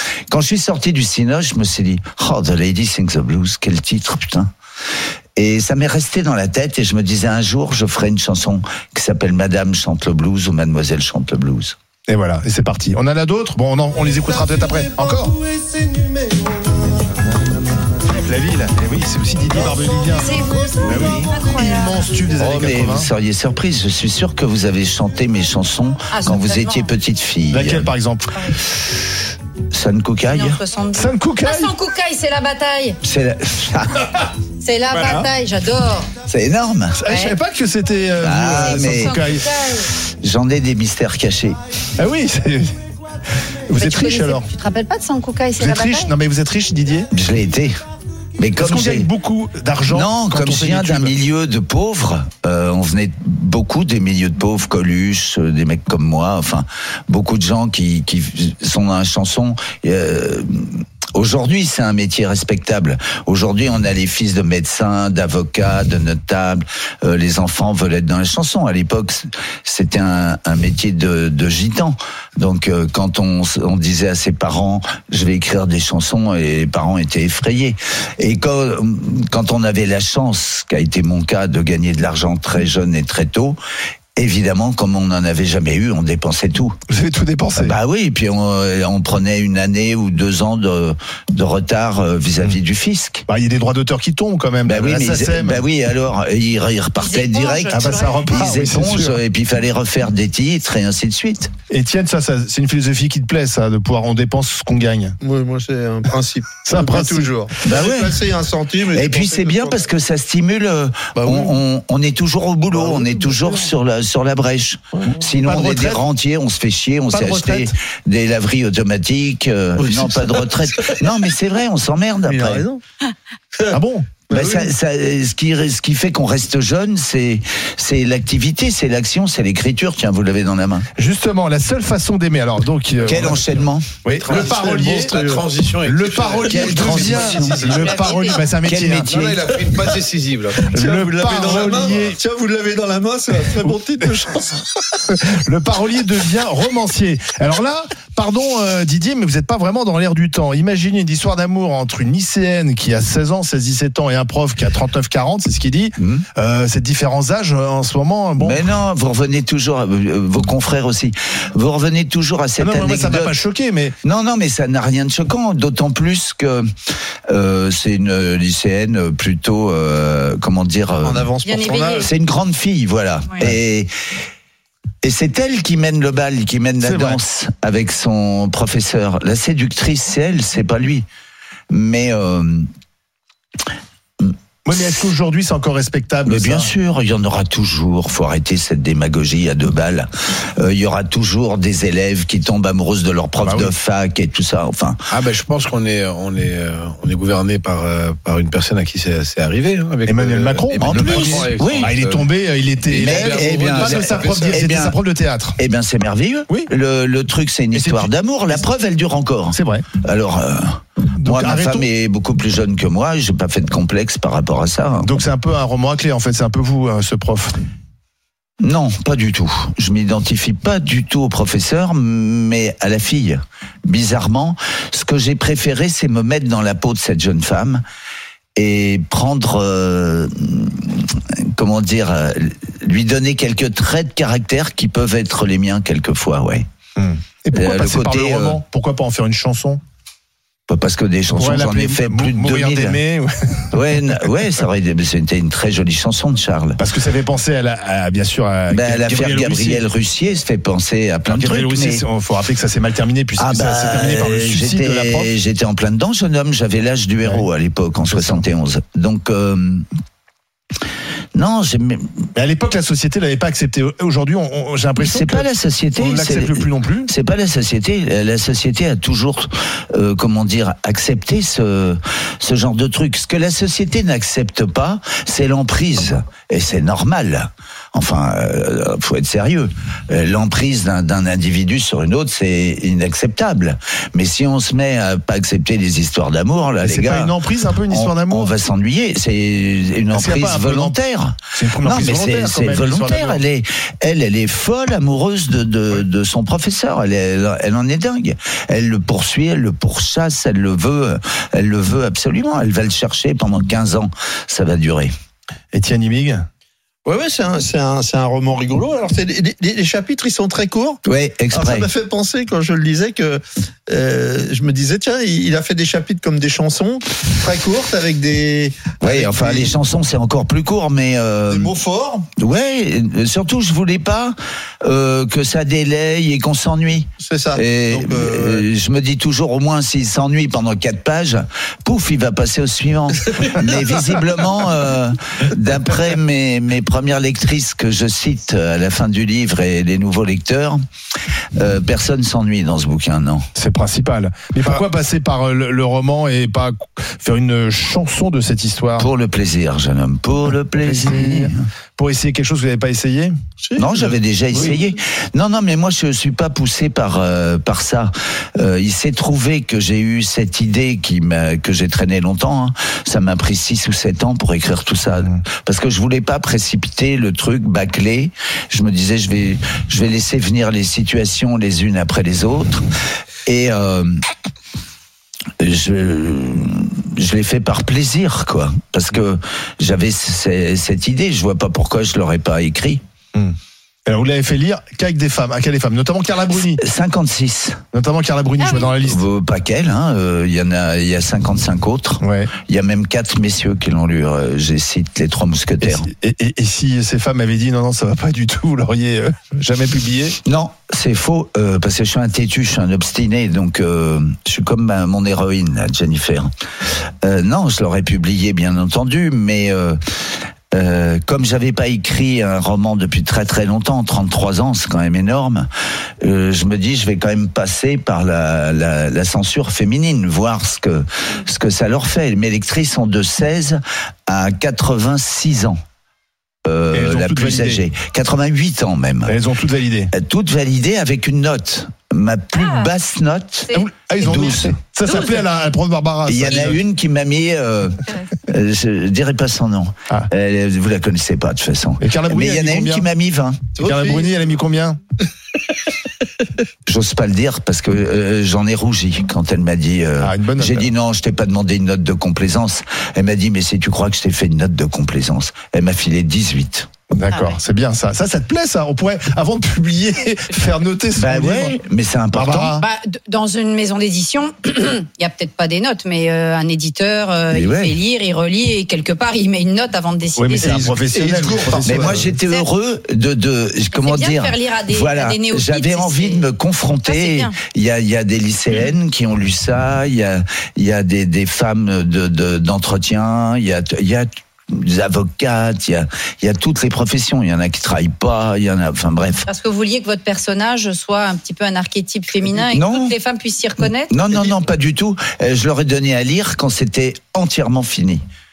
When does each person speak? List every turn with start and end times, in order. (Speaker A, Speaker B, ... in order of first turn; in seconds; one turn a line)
Speaker A: 0.3-4.5
Speaker A: 5.4-11.8
Speaker B: 12.1-15.4
Speaker B: 18.0-23.1
Speaker C: 20.2-22.1
Speaker A: 20.8-21.3
Speaker A: 22.4-27.9
Speaker C: 26.1-26.9
Speaker B: 27.5-28.6
Speaker C: 28.3-28.6
Speaker A: 29.7-30.6
Speaker C: 30.3-33.0
Speaker B: 30.9-31.7
Speaker A: 33.0-34.3
Speaker C: 34.6-36.1
Speaker B: 34.9-35.3
Speaker A: 36.3-37.0
Speaker B: 37.0-39.5
Speaker C: 37.1-37.4
Speaker A: 38.2-41.6
Speaker C: 38.6-39.9
Speaker B: 42.0-42.8
Speaker B: 43.7-44.5
Speaker C: 43.8-46.1
Speaker B: 45.6-47.1
Speaker A: 47.1-47.7
Speaker A: 48.4-49.1
Speaker B: 48.6-51.1
Speaker A: 49.9-83.6
Speaker A: 84.2-86.8
Speaker B: 86.9-87.8
Speaker A: 87.6-93.2
Speaker B: 93.3-95.6
Speaker A: 94.7-101.5
Speaker C: 97.0-98.3
Speaker B: 97.7-99.2
Speaker B: 101.7-105.2
Speaker D: 105.2-109.8
Speaker B: 106.6-107.4
Speaker A: 107.6-108.2
Speaker A: 108.9-122.7
Speaker D: 111.2-111.6
Speaker D: 112.7-113.6
Speaker B: 115.4-116.0
Speaker B: 117.1-117.7
Speaker D: 119.8-121.1
Speaker D: 122.3-122.8
Speaker B: 123.7-124.1
Speaker D: 124.3-124.7
Speaker A: 124.3-130.9
Speaker B: 131.0-133.4
Speaker A: 133.0-133.9
Speaker B: 134.0-135.1
Speaker E: 134.2-138.2
Speaker D: 134.3-135.5
Speaker B: 135.8-139.4
Speaker A: 136.5-137.6
Speaker C: 137.6-138.5
Speaker A: 138.6-139.6
Speaker E: 139.0-140.7
Speaker D: 140.6-144.7
Speaker B: 140.7-142.2
Speaker B: 145.1-158.6
Speaker A: 156.0-156.3
Speaker A: 158.4-163.3
Speaker B: 162.6-163.9
Speaker A: 164.0-166.7
Speaker A: 167.3-174.1
Speaker D: 171.0-172.1
Speaker C: 171.4-172.1
Speaker A: 175.0-181.1
Speaker B: 176.8-177.2
Speaker A: 181.7-182.7
Speaker B: 184.7-186.7
Speaker A: 186.3-195.0
Speaker B: 193.4-193.7
Speaker E: 195.1-202.3
Speaker B: 200.1-205.6
Speaker A: 200.8-201.9
Speaker E: 202.9-204.6
Speaker A: 202.9-205.0
Speaker A: 205.6-215.2
Speaker B: 207.7-208.1
Speaker B: 209.5-209.9
Speaker B: 211.2-211.9
Speaker B: 215.0-217.6
Speaker A: 218.6-227.8
Speaker A: 228.6-236.7
Speaker B: 237.0-239.8
Speaker A: 237.5-238.6
Speaker A: 240.7-243.0
Speaker B: 241.3-244.3
Speaker A: 243.7-246.8
Speaker B: 246.8-249.8
Speaker A: 248.7-252.0
Speaker B: 251.3-255.3
Speaker A: 253.4-259.9
Speaker B: 258.1-258.4
Speaker A: 261.4-262.3
Speaker B: 262.4-267.1
Speaker A: 265.0-287.4
Speaker B: 286.8-288.5
Speaker A: 287.9-305.1
Speaker B: 290.1-291.0
Speaker B: 291.5-293.4
Speaker B: 305.7-306.5
Speaker D: 307.1-311.0
Speaker A: 311.1-311.9
Speaker D: 311.5-319.7
Speaker A: 319.0-321.8
Speaker D: 321.5-322.3
Speaker A: 322.4-340.8
Speaker D: 327.2-328.7
Speaker A: 341.6-343.5
Speaker B: 343.6-349.1
Speaker A: 349.0-351.7
Speaker B: 350.8-353.3
Speaker D: 353.6-354.9
Speaker A: 353.8-372.9
Speaker A: 373.5-374.2
Speaker A: 375.6-383.0
Speaker B: 383.3-386.8
Speaker A: 386.5-387.8
Speaker B: 387.9-389.2
Speaker C: 388.6-389.0
Speaker A: 389.0-396.1
Speaker B: 392.2-392.5
Speaker B: 395.8-400.4
Speaker A: 400.4-406.5
Speaker A: 407.1-415.7
Speaker A: 416.2-425.8
Speaker A: 426.6-429.4
Speaker B: 426.9-427.8
Speaker B: 429.3-430.1
Speaker A: 430.1-434.8
Speaker C: 432.6-432.9
Speaker B: 433.7-436.8
Speaker A: 436.3-443.6
Speaker B: 442.0-443.1
Speaker D: 443.8-444.4
Speaker B: 443.8-445.0
Speaker A: 446.9-456.9
Speaker B: 450.2-450.9
Speaker B: 457.1-461.8
Speaker C: 457.3-457.6
Speaker A: 461.2-462.8
Speaker B: 462.3-462.9
Speaker C: 462.8-470.9
Speaker A: 467.5-468.0
Speaker B: 470.4-472.3
Speaker D: 470.6-472.3
Speaker A: 471.8-489.5
Speaker C: 473.9-476.5
Speaker C: 477.1-477.6
Speaker C: 489.5-494.2
Speaker A: 492.6-493.1
Speaker A: 494.1-498.2